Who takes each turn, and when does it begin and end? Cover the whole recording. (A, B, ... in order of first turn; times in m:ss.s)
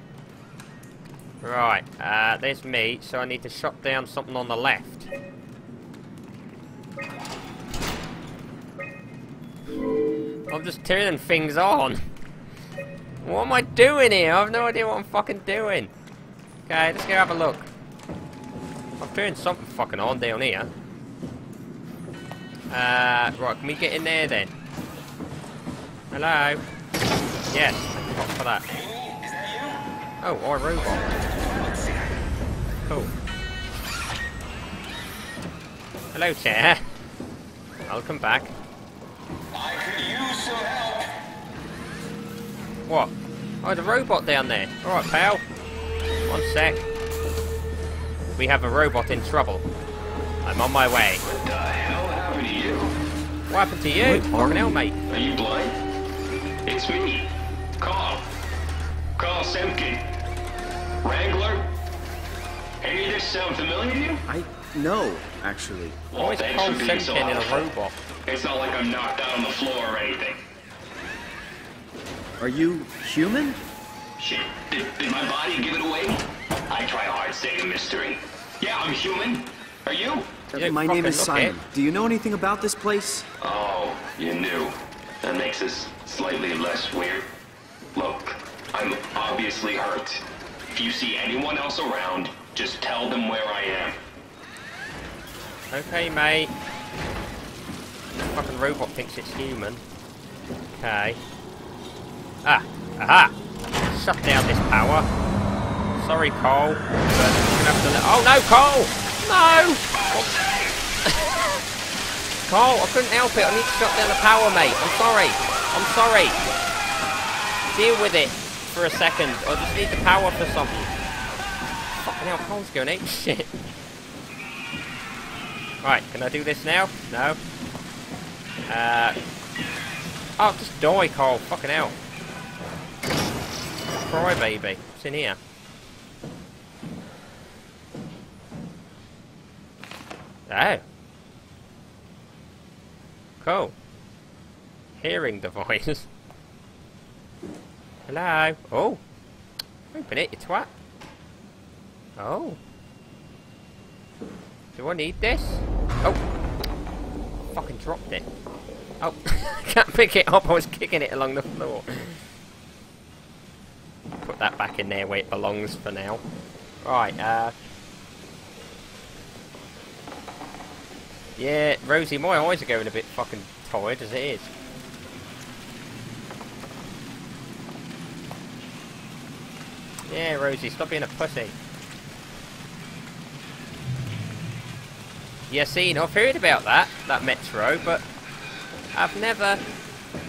0:01.4-0:05.1 A
0:10.5-0:12.0 A
0:13.2-0:15.9 A
0:16.7-0:17.7 A
0:19.0-0:20.7 A
0:22.7-0:24.5 A
0:26.1-0:26.6 A
0:27.5-0:28.6 A
0:30.2-0:31.2 A
0:36.1-0:36.8 A
0:37.9-0:38.5 A
0:42.9-0:45.4 A
0:46.3-0:46.9 A
0:48.4-0:49.6 A
0:50.4-0:51.2 A
0:51.3-0:52.9 B
0:53.5-0:55.0 A
0:54.0-0:54.8 C
0:55.1-0:55.8 B
0:56.6-0:58.3 B
0:59.2-1:00.1 B
1:01.0-1:01.7 B
1:02.8-1:04.2 B
1:04.3-1:06.0 C
1:06.1-1:07.7 B
1:06.2-1:08.0 A
1:08.3-1:10.4 B
1:12.4-1:13.6 C
1:14.2-1:20.3 B
1:20.5-1:23.3 C
1:20.6-1:21.6 A
1:23.4-1:27.3 B
1:28.0-1:34.0 B
1:35.7-1:36.5 A
1:38.3-1:39.8 A
1:40.8-1:41.2 A
1:42.4-1:43.4 A
1:43.9-1:45.1 A
1:46.0-1:50.4 A
1:51.0-1:51.4 A
1:52.5-1:56.4 A
1:57.7-2:01.0 A
2:02.0-2:03.5 A
2:05.8-2:07.4 A
2:08.7-2:09.2 A
2:10.4-2:12.0 A
2:14.0-2:15.4 A
2:20.5-2:20.8 A
2:23.4-2:23.7 A
2:25.0-2:26.1 A
2:28.1-2:29.0 A
2:29.9-2:30.7 A
2:32.2-2:32.6 A
2:34.8-2:36.2 A
2:37.5-2:38.3 A
2:39.0-2:42.2 A
2:44.2-2:46.2 A
2:46.8-2:47.6 A
2:51.4-2:54.5 A
3:00.1-3:01.6 A
3:05.5-3:08.0 A
3:08.9-3:09.6 A